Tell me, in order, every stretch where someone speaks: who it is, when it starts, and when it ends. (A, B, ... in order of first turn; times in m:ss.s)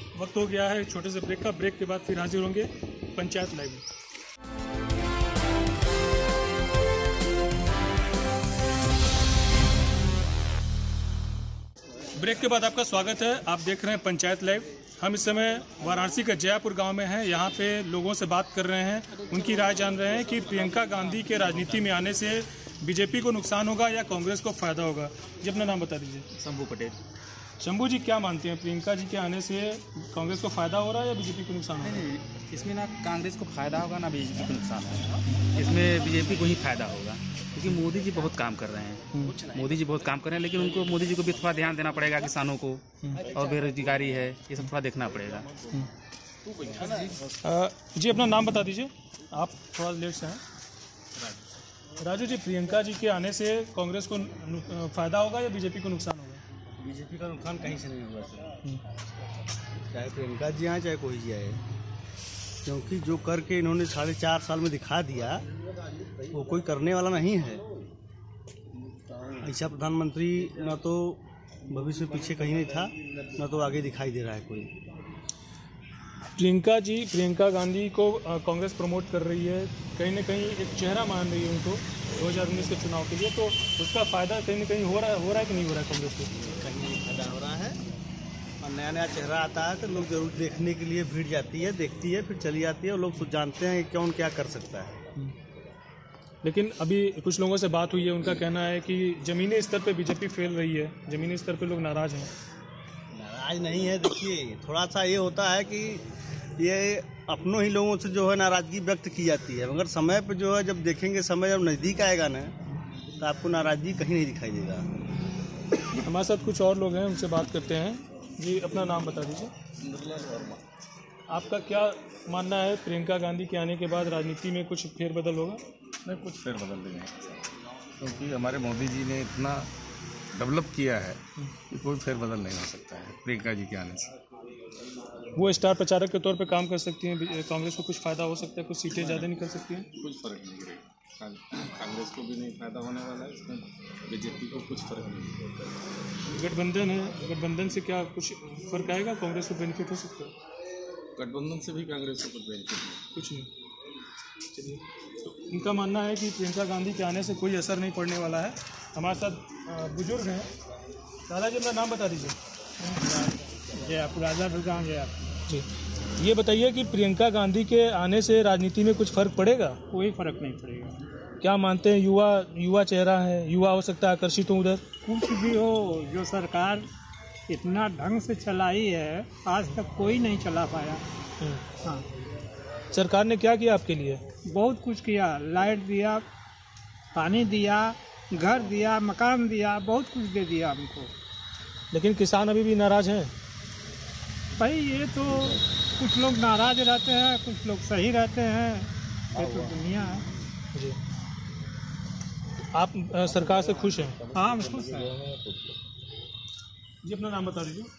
0:00.1-0:03.8 A
0:12.2-0:26.3 A
0:26.3-0:27.0 B
0:27.6-0:32.0 A
0:32.3-0:45.5 B
0:47.4-0:50.4 A
0:52.0-0:56.4 A
0:56.8-0:58.6 C
0:59.9-1:01.6 C
1:02.6-1:05.4 C
1:06.3-1:07.6 C
1:09.4-1:14.7 C
1:16.4-1:26.3 A
1:26.4-1:27.8 C
1:28.6-1:35.0 C
1:36.4-1:42.3 A
1:43.1-1:52.5 C
1:53.2-1:54.9 C
1:56.0-1:59.5 A
1:59.9-2:00.4 D
2:01.3-2:05.6 A
2:06.0-2:07.3 D
2:08.0-2:09.7 D
2:10.3-2:14.1 D
2:15.4-2:19.9 A
2:19.0-2:19.2 D
2:20.0-2:25.7 D
2:26.3-2:30.3 A
2:31.2-2:33.0 D
2:33.1-2:33.5 A
2:34.5-2:40.5 A
2:41.3-2:42.4 A
2:42.8-2:45.3 E
2:46.2-2:49.8 A
2:49.9-2:51.0 E
2:51.4-2:54.9 A
2:55.0-2:56.8 E
2:57.5-3:01.0 E
3:01.7-3:02.0 E
3:02.9-3:04.2 A
3:04.5-3:06.2 E
3:07.1-3:11.1 E
3:11.9-3:13.3 A
3:14.6-3:20.2 E
3:22.7-3:24.2 A
3:24.3-3:25.2 E
3:27.0-3:27.9 A